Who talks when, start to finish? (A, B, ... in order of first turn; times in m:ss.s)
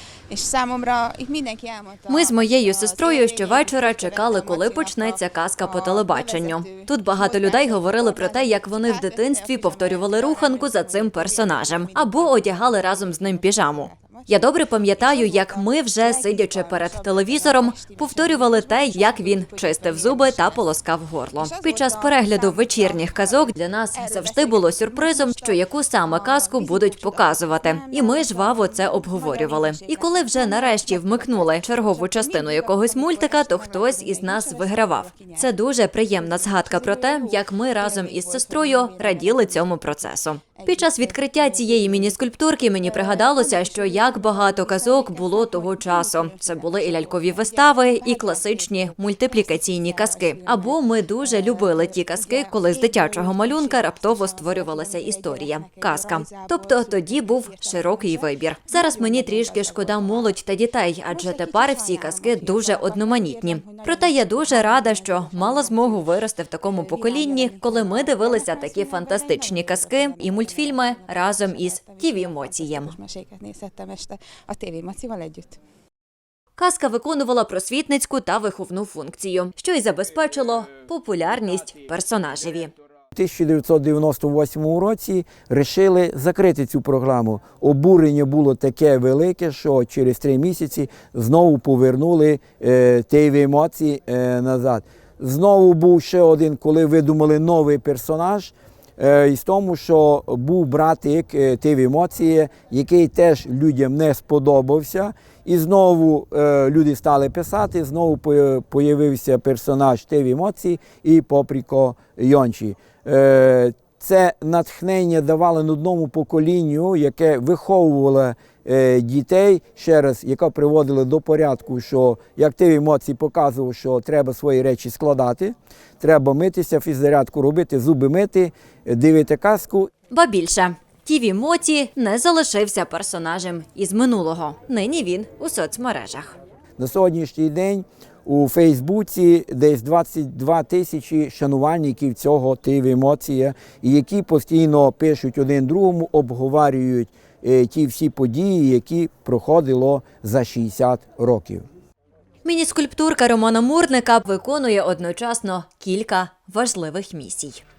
0:00.3-0:20.7 A
0:02.1-1:13.0 B
0:21.4-0:35.6 A
0:36.1-0:39.7 A
0:40.6-0:42.2 A
0:42.8-1:00.3 A
1:01.1-1:06.1 A
1:06.6-1:15.6 A
1:16.6-1:22.7 B
1:23.2-2:09.9 C
2:10.1-2:16.4 B
2:16.8-2:31.7 C
2:32.4-2:37.6 B